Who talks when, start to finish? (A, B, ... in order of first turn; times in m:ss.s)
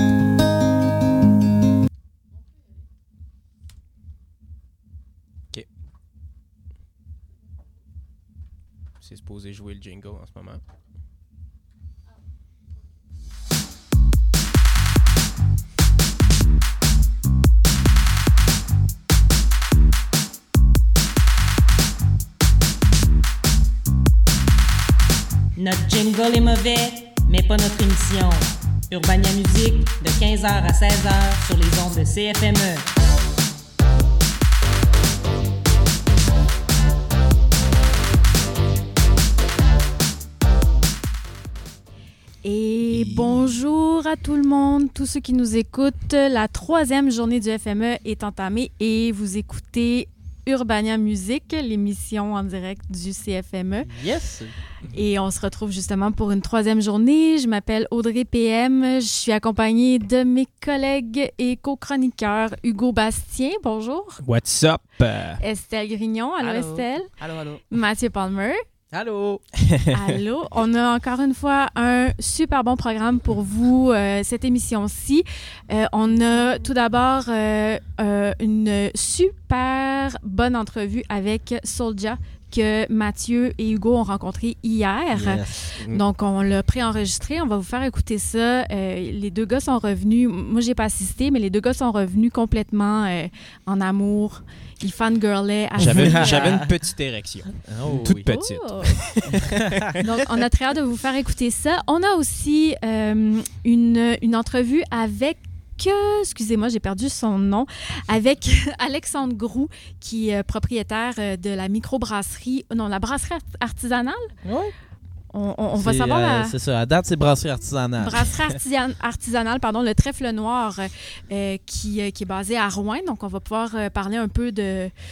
0:09.0-0:10.6 A
0:25.6-0:32.8 B
0:42.4-0:53.9 C
0:42.9-0:43.4 A
0:53.9-0:54.5 D
0:54.9-1:04.2 C
1:04.2-1:05.4 A
1:05.4-1:08.6 C
1:06.6-1:07.6 D
1:08.9-1:09.4 D
1:09.9-1:36.6 C
1:25.1-1:26.0 D
1:35.8-1:39.9 A
1:35.8-1:36.7 D
1:37.6-1:38.3 D
1:38.3-1:39.1 C
1:40.0-1:54.3 C
1:54.4-1:54.7 D
1:55.3-1:56.5 C
1:55.7-1:58.2 D
1:58.0-2:04.9 C